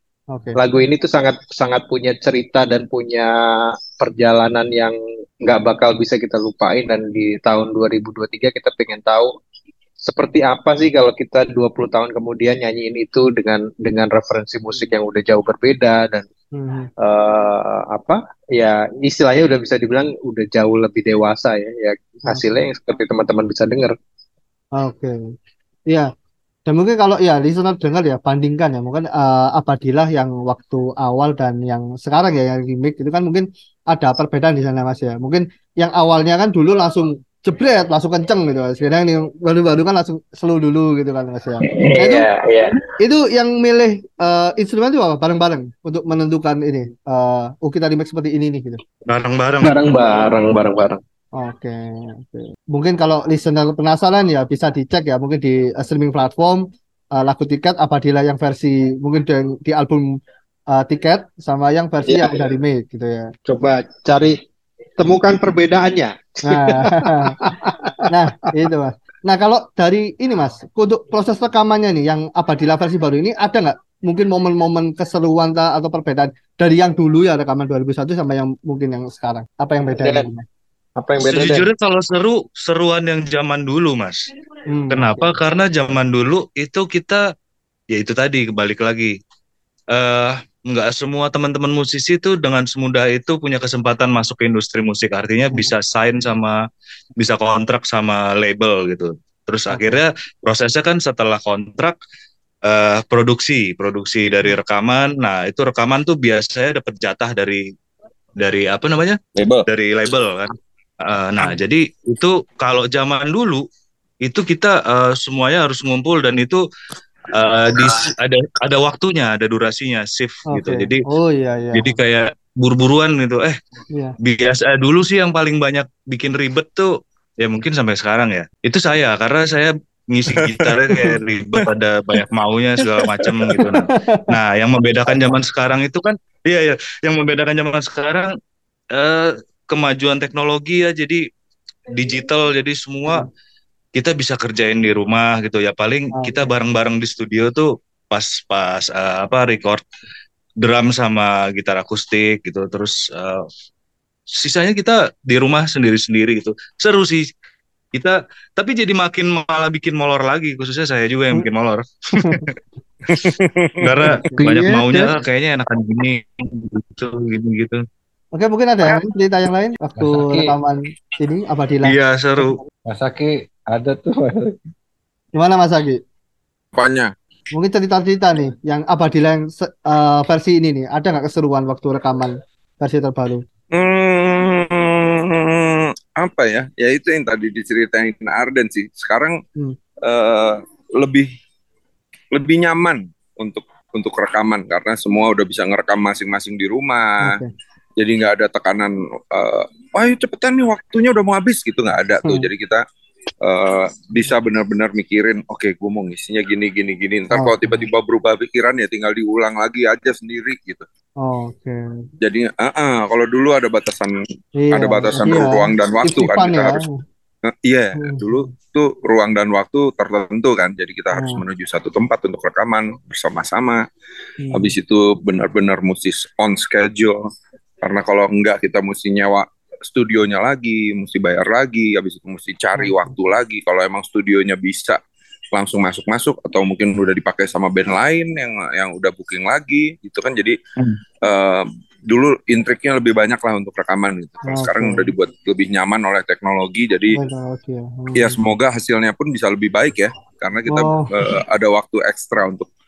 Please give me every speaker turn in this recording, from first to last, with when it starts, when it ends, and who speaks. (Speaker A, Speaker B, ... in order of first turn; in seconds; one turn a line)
Speaker A: 0.3-0.6
Speaker B: 0.6-9.3
Speaker B: 10.0-16.2
Speaker A: 16.5-16.9
Speaker B: 17.0-23.9
Speaker A: 22.3-22.6
Speaker A: 24.8-25.1
Speaker A: 26.7-42.3
Speaker B: 41.7-42.8
Speaker A: 43.0-48.8
Speaker C: 49.1-49.8
Speaker B: 49.6-51.0
Speaker A: 51.4-56.6
Speaker A: 57.1-60.2
Speaker A: 60.7-63.3
Speaker B: 62.1-62.5
Speaker B: 63.5-64.4
Speaker B: 65.0-68.5
Speaker A: 66.5-67.4
Speaker A: 68.1-80.5
Speaker B: 80.0-80.3
Speaker B: 81.0-81.7
Speaker C: 81.2-84.2
Speaker A: 84.7-85.4
Speaker C: 84.9-87.2
Speaker C: 87.9-89.1
Speaker C: 89.9-96.5
Speaker C: 97.2-102.0
Speaker A: 99.7-100.0
Speaker C: 102.7-107.6
Speaker C: 108.4-113.6
Speaker D: 109.4-109.7
Speaker C: 114.2-116.6
Speaker C: 117.3-121.0
Speaker A: 120.5-122.0
Speaker C: 121.7-123.6
Speaker C: 124.2-126.9
Speaker C: 127.4-138.3
Speaker A: 133.6-134.3
Speaker C: 138.9-141.2
Speaker C: 141.9-143.3
Speaker C: 144.0-149.8
Speaker A: 146.2-146.5
Speaker C: 150.6-153.5
Speaker C: 154.3-157.2
Speaker C: 157.9-162.5
Speaker A: 162.2-162.5
Speaker D: 163.1-164.2
Speaker C: 163.8-167.8
Speaker A: 164.1-165.1
Speaker A: 168.3-172.6
Speaker E: 170.0-170.6
Speaker C: 171.8-172.6
Speaker E: 172.9-174.6
Speaker A: 175.4-176.0
Speaker D: 176.8-177.1
Speaker A: 177.5-183.4
Speaker D: 183.7-189.4
Speaker D: 190.0-191.3
Speaker D: 192.3-197.4
Speaker A: 197.2-197.5
Speaker D: 198.0-202.8
Speaker D: 203.4-210.9
Speaker A: 207.3-207.9
Speaker A: 211.2-211.8
Speaker D: 212.2-214.2
Speaker A: 214.6-217.0
Speaker D: 214.7-216.8
Speaker D: 217.4-223.8
Speaker A: 218.0-218.4
Speaker A: 221.1-221.4
Speaker A: 224.4-224.8
Speaker D: 224.5-227.2
Speaker D: 227.8-235.0
Speaker A: 232.8-233.2
Speaker D: 235.5-240.6
Speaker D: 241.2-247.2
Speaker A: 244.5-245.1
Speaker A: 247.1-248.4
Speaker D: 248.2-252.7
Speaker A: 250.7-251.1